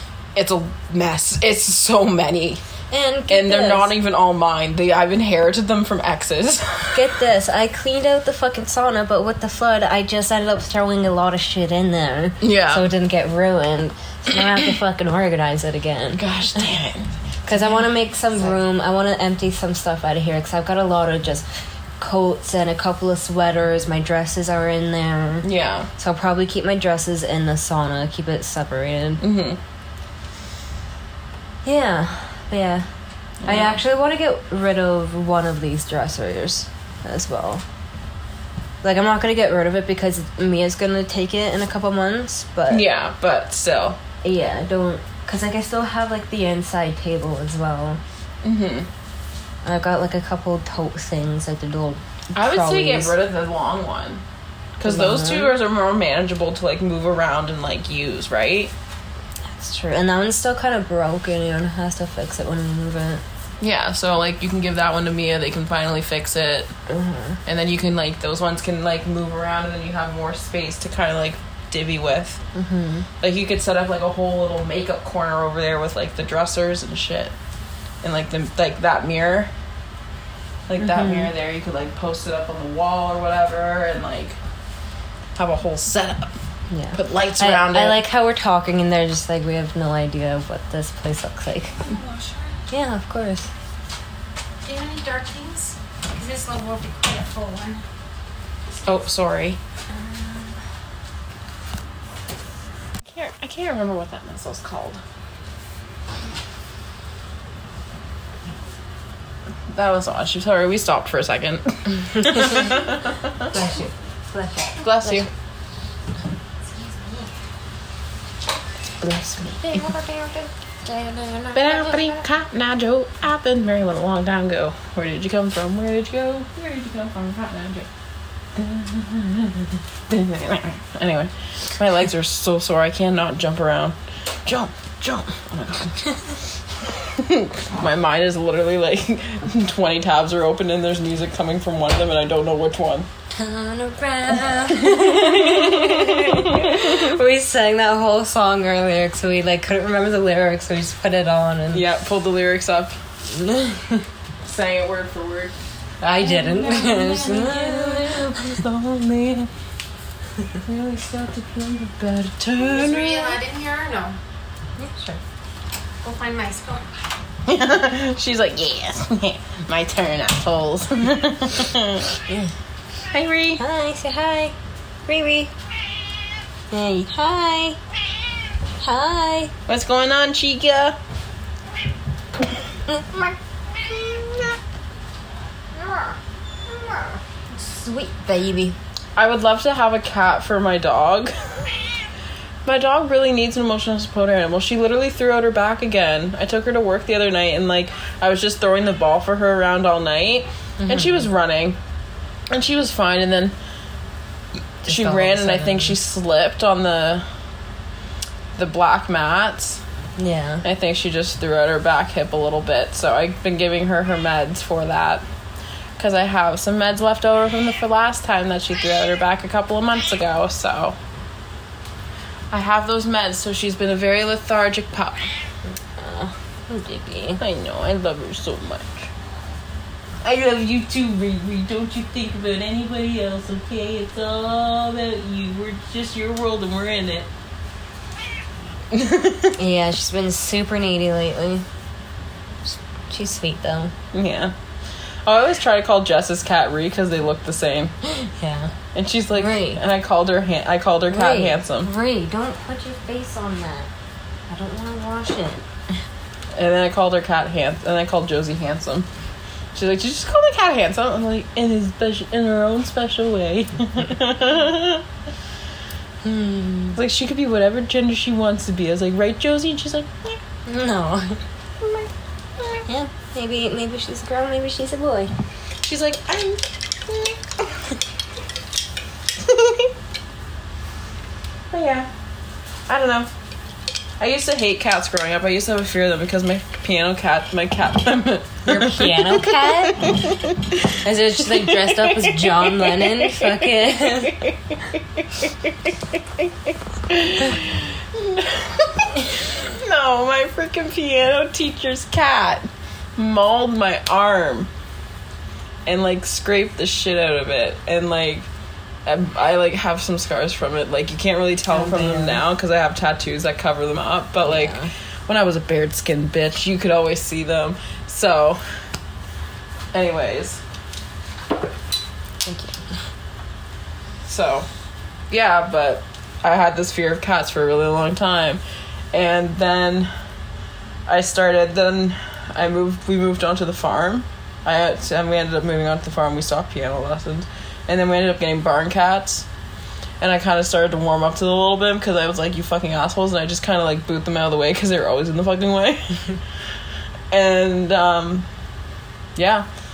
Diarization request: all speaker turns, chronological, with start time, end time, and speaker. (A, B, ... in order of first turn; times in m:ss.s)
0:00.3-0:02.6 A
0:02.9-0:03.9 B
0:03.3-0:07.2 A
0:06.9-0:16.6 B
0:12.4-0:12.8 A
0:16.2-0:17.8 A
0:17.4-0:21.5 B
0:22.0-0:29.2 B
0:25.4-0:25.9 A
0:29.2-0:29.6 A
0:31.6-0:32.9 B
0:33.4-0:33.8 A
0:33.4-0:37.6 B
0:38.8-0:42.8 B
0:42.7-0:44.0 A
0:44.2-0:48.0 B
0:48.4-0:48.9 A
0:49.6-0:53.1 B
0:52.3-0:54.2 A
0:54.8-0:58.7 A
0:54.8-0:55.5 B
0:59.5-1:03.2 B
1:03.6-1:06.7 A
1:06.9-1:07.4 B
1:07.4-1:12.4 A
1:12.5-1:13.1 B
1:13.2-1:17.3 A
1:18.0-1:19.5 A
1:20.7-1:24.4 A
1:20.8-1:21.3 B
1:25.4-1:26.3 A
1:26.7-1:31.8 B
1:26.9-1:28.0 A
1:31.8-1:32.6 C
1:32.7-1:33.5 B
1:34.6-1:37.8 C
1:38.8-1:39.6 A
1:39.9-1:40.2 C
1:43.1-1:45.0 A
1:49.7-1:53.5 A
1:52.2-1:52.8 B
1:53.4-1:55.2 B
1:54.8-1:55.3 A
1:56.8-1:57.3 C
1:59.0-1:59.9 A
1:59.6-2:02.0 B
2:01.5-2:07.9 A
2:08.5-2:23.1 A
2:23.3-2:31.8 B
2:24.7-2:27.1 A
2:31.7-2:33.0 A
2:33.3-2:34.0 B
2:34.4-2:35.5 A
2:36.0-2:38.6 B
2:36.2-2:39.5 A
2:36.4-2:38.1 C
2:40.6-2:43.4 A
2:42.5-2:44.2 C
2:44.8-2:45.2 B
2:46.0-2:46.9 C
2:47.4-2:52.2 A
2:52.3-2:52.5 B
2:53.1-2:53.6 A
2:53.6-2:54.5 B
2:55.1-2:55.5 B
2:56.7-2:57.8 B
2:58.8-2:59.5 B
2:59.7-3:01.0 A
3:02.9-3:04.5 B
3:05.8-3:06.1 B
3:06.7-3:08.8 B
3:09.2-3:12.1 A
3:12.6-3:21.8 A
3:20.8-3:21.3 B
3:22.5-3:23.5 A
3:24.8-3:26.0 B
3:24.8-3:27.3 A
3:28.6-3:29.8 A
3:30.2-3:30.6 B
3:30.6-3:35.2 A
3:36.0-3:41.0 A
3:42.5-3:45.3 A
3:46.0-3:47.4 B
3:47.4-3:49.1 A
3:50.2-3:57.3 A
3:58.9-3:59.6 A
3:59.6-4:01.6 B
4:02.7-4:03.9 B
4:04.1-4:04.5 A
4:05.2-4:07.9 A
4:08.0-4:08.7 B
4:08.9-4:11.9 A
4:09.4-4:09.8 B
4:11.1-4:13.9 B
4:14.5-4:15.6 B
4:16.5-4:19.1 A
4:19.7-4:25.0 A
4:26.2-4:27.0 B
4:27.0-4:30.4 A
4:30.6-4:31.4 B
4:32.8-4:35.3 B
4:35.8-4:37.9 A
4:39.4-4:39.9 A
4:41.7-4:42.1 A
4:42.9-4:43.3 A
4:44.2-5:04.7 A
4:48.6-4:50.2 B
4:51.0-4:54.4 B
5:05.8-5:08.5 A
5:09.0-5:18.8 A
5:11.7-5:12.4 B
5:14.4-5:14.9 B
5:19.9-5:20.6 A
5:22.4-5:23.0 B
5:24.2-5:24.7 A
5:25.3-5:30.2 A
5:31.1-5:39.5 A
5:40.2-5:46.4 A
5:47.3-5:48.5 A
5:49.4-5:49.6 A